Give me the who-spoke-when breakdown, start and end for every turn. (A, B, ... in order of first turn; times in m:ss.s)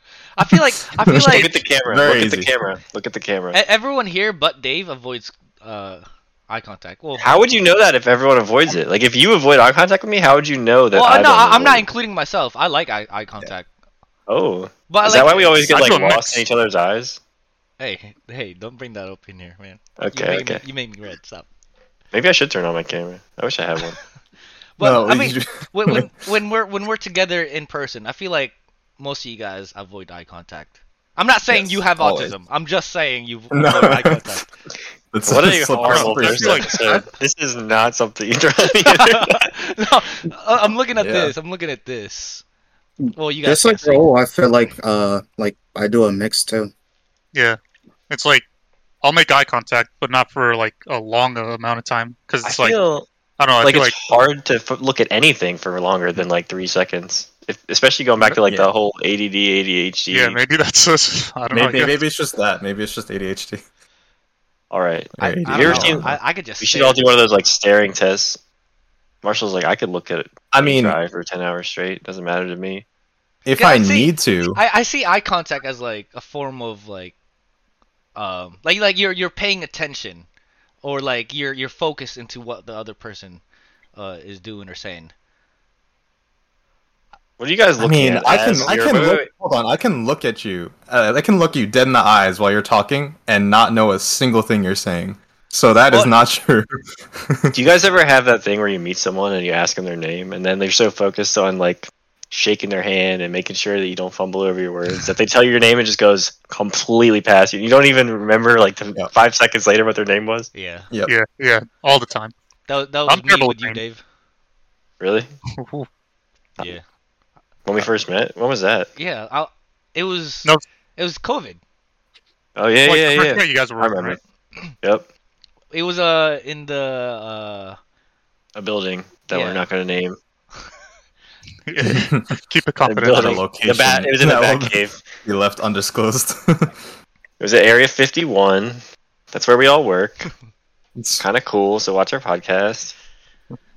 0:00.4-0:01.6 A
0:00.4-0:02.5 B
0:01.2-0:03.6 C
0:03.5-0:07.3 A
0:07.2-0:11.9 C
0:10.9-0:13.7 A
0:14.3-0:17.2 C
0:14.9-0:15.8 A
0:15.7-0:16.4 D
0:17.8-0:21.4 A
0:20.0-0:20.6 C
0:22.1-0:24.0 C
0:24.8-0:34.5 A
0:24.8-0:26.1 B
0:31.5-0:32.3 B
0:33.5-0:34.2 B
0:35.1-0:37.0 B
0:35.2-0:39.5 C
0:35.8-0:36.8 D
0:38.8-0:42.4 A
0:41.0-0:41.3 B
0:43.0-0:46.7 E
0:43.2-0:44.0 A
0:47.3-0:47.6 D
0:48.1-0:48.5 D
0:49.0-0:52.8 D
0:52.4-0:53.1 C
0:53.4-0:54.2 D
0:53.6-1:00.4 C
0:58.2-0:58.7 B
1:00.1-1:02.0 D
1:01.5-1:03.6 B
1:04.7-1:06.1 C
1:05.2-1:06.2 B
1:05.2-1:07.0 A
1:06.6-1:08.4 C
1:09.2-1:12.8 C
1:10.5-1:11.0 B
1:13.4-1:14.6 B
1:13.6-1:17.1 A
1:18.2-1:20.2 A
1:20.8-1:23.4 A
1:24.0-1:25.1 A
1:27.4-1:29.3 C
1:27.8-1:37.6 B
1:37.5-1:50.5 C
1:50.5-1:50.9 A
1:51.0-1:52.3 D
1:52.7-1:54.0 A
1:53.0-1:53.8 D
1:55.0-1:55.3 C
1:55.6-1:55.9 D
1:57.6-1:58.9 C
1:59.0-2:01.6 A
2:02.6-2:04.2 C
2:02.8-2:04.2 D
2:04.8-2:05.1 C
2:05.7-2:07.8 A
2:08.6-2:10.2 C
2:09.3-2:09.7 A
2:11.7-2:13.4 D
2:11.9-2:12.2 B
2:12.8-2:15.1 C
2:13.1-2:16.8 B
2:17.4-2:20.3 C
2:21.0-2:21.2 B
2:21.2-2:23.0 C